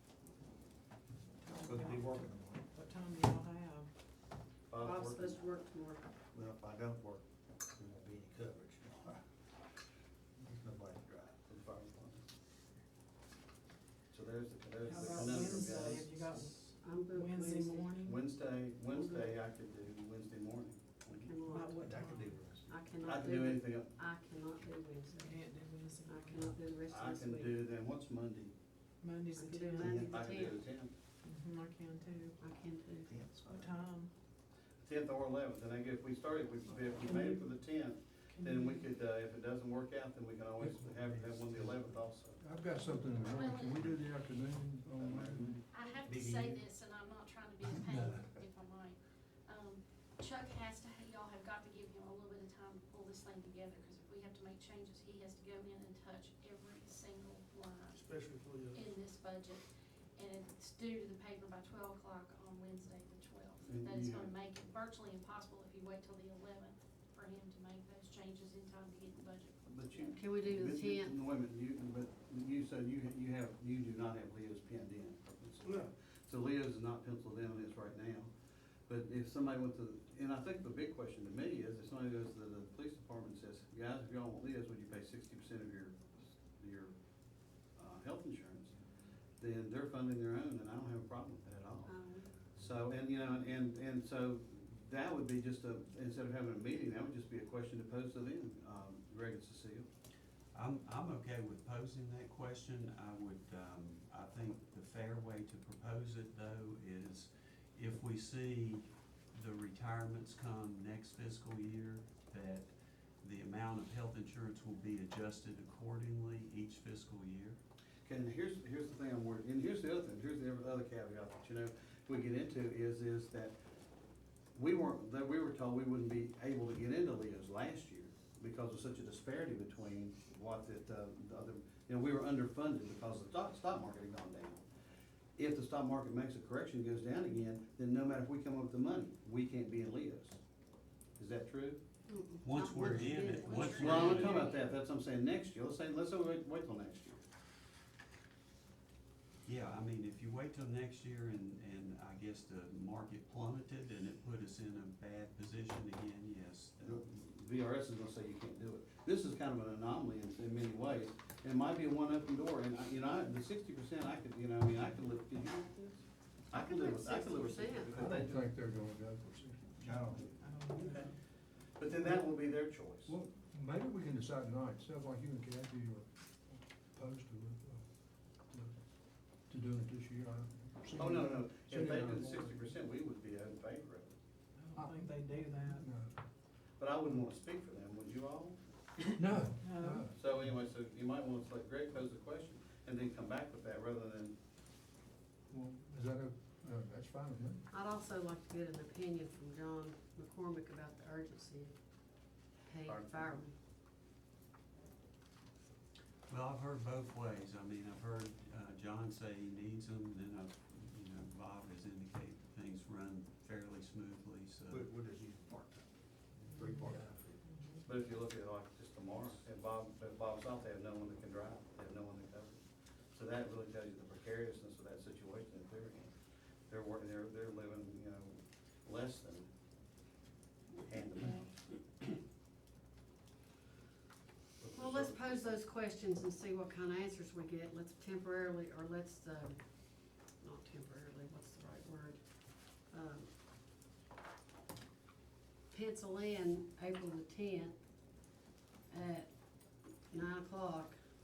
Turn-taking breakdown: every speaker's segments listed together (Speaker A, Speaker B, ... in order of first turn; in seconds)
Speaker A: 1.4-3.9, 14.8-18.2, 21.5-22.4, 25.1-26.6, 29.0-30.0, 31.2-32.4, 33.5-34.1, 38.3-38.9, 170.4-171.1, 184.6-185.8, 189.6-190.1, 216.6-216.9, 217.4-217.9
Speaker B: 1.6-2.7, 6.3-9.2, 10.4-11.4, 21.8-22.6, 33.1-33.7, 57.9-58.8, 169.8-170.4, 214.7-217.4
Speaker C: 4.7-5.4, 11.5-12.2, 14.1-16.1, 18.0-21.6, 23.0-23.9, 26.9-28.5, 29.8-30.9, 34.8-42.4, 45.0-45.6, 63.6-64.3, 69.7-78.3, 78.9-86.9, 87.8-88.7, 89.4-92.0, 92.5-99.9, 118.0-123.5, 124.5-134.6, 135.4-140.4, 141.2-141.8, 142.8-143.0, 143.6-147.2, 156.8-168.5, 171.8-173.1, 181.0-184.1, 186.8-188.6, 190.1-194.3, 202.8-203.4, 217.8-222.6, 223.1-226.1, 226.7-229.5, 230.7-232.1, 234.6-235.6
Speaker D: 4.8-6.0, 14.9-16.0, 16.8-17.9, 18.9-19.3, 21.1-21.8, 22.7-25.4, 26.1-27.6, 29.3-30.6, 32.4-33.1, 37.1-37.3, 70.0-71.2, 91.8-92.3, 142.1-144.3, 166.5-168.0, 197.7-201.7, 202.7-203.5, 234.7-239.6, 240.4-242.2, 242.9-243.3, 245.7-247.7, 248.9-249.3, 250.1-251.0
Speaker E: 40.6-46.4, 47.6-48.3, 167.9-170.2, 173.0-177.8, 178.5-178.8, 179.5-182.7, 184.7-186.2, 189.1-190.2, 195.5-197.6
Speaker F: 43.3-43.9, 45.7-58.0, 58.7-59.6, 60.1-70.1, 143.0-144.6
Speaker G: 100.5-112.7, 113.2-117.6, 142.4-144.5, 149.4-157.0, 206.3-214.9